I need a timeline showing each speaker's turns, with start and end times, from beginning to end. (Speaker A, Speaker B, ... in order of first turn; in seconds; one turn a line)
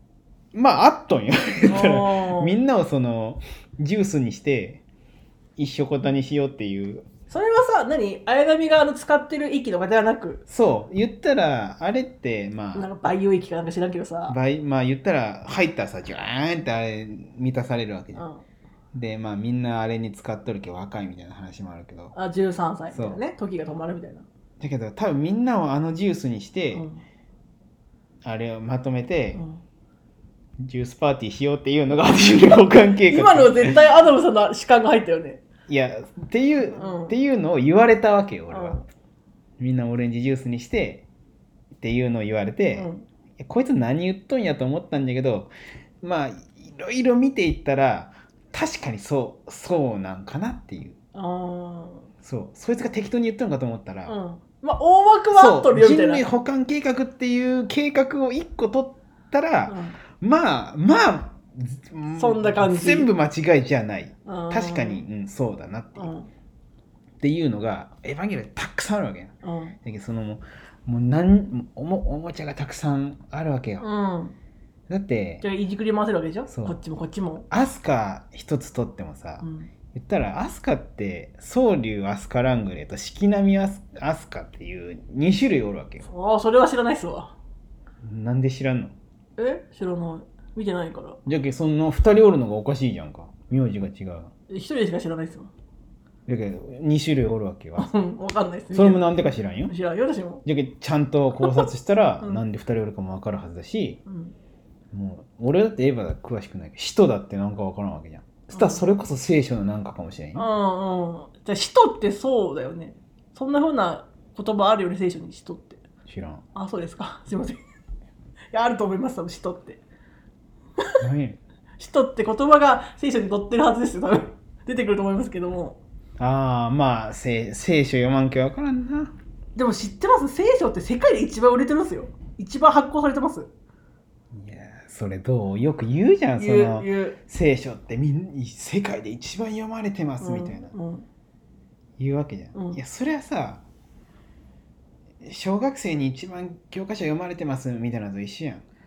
Speaker A: 0.5-4.8
Speaker B: 1.7-2.5
Speaker A: 5.6-7.0
Speaker B: 7.3-10.4
Speaker A: 10.5-12.9
Speaker B: 12.7-14.4
Speaker A: 14.3-18.2
Speaker B: 18.1-18.4
Speaker A: 18.9-22.1
Speaker B: 22.1-24.2
Speaker A: 22.9-23.2
Speaker A: 24.6-26.9
Speaker B: 26.7-27.0
Speaker A: 28.2-29.4
Speaker B: 29.3-29.6
Speaker A: 30.6-33.8
Speaker B: 33.0-35.4
Speaker A: 35.7-38.9
Speaker B: 36.7-37.1
Speaker B: 38.5-38.8
Speaker A: 39.6-41.1
Speaker A: 41.7-51.0
Speaker B: 42.7-43.0
Speaker B: 51.1-52.1
Speaker A: 52.2-54.1
Speaker B: 54.1-56.2
Speaker A: 55.3-66.1
Speaker B: 59.7-60.0
Speaker B: 62.1-63.1
Speaker B: 64.2-65.0
Speaker B: 66.0-66.3
Speaker A: 67.2-69.3
Speaker B: 69.4-69.8
Speaker A: 69.8-73.9
Speaker B: 73.8-74.3
Speaker A: 74.9-75.4
Speaker B: 75.4-77.5
Speaker A: 76.5-76.8
Speaker A: 77.5-86.1
Speaker B: 79.4-79.7
Speaker B: 86.0-87.3
Speaker A: 88.0-88.9
Speaker B: 89.4-91.2
Speaker A: 91.2-94.3
Speaker B: 94.5-95.5
Speaker A: 96.3-97.9
Speaker B: 97.8-99.1
Speaker A: 98.7-99.7
Speaker B: 99.7-100.4
Speaker A: 100.4-104.0
Speaker B: 104.1-104.3
Speaker A: 104.9-110.5
Speaker B: 108.5-108.8
Speaker B: 110.3-115.8
Speaker A: 116.0-116.4
Speaker B: 116.5-117.6
Speaker B: 118.5-119.8
Speaker A: 121.0-121.4
Speaker B: 121.8-125.8
Speaker A: 126.2-129.1
Speaker B: 129.6-133.5
Speaker A: 134.3-140.7
Speaker B: 136.4-137.2
Speaker B: 140.2-141.1
Speaker A: 142.0-143.6
Speaker B: 142.5-142.8
Speaker A: 145.2-148.6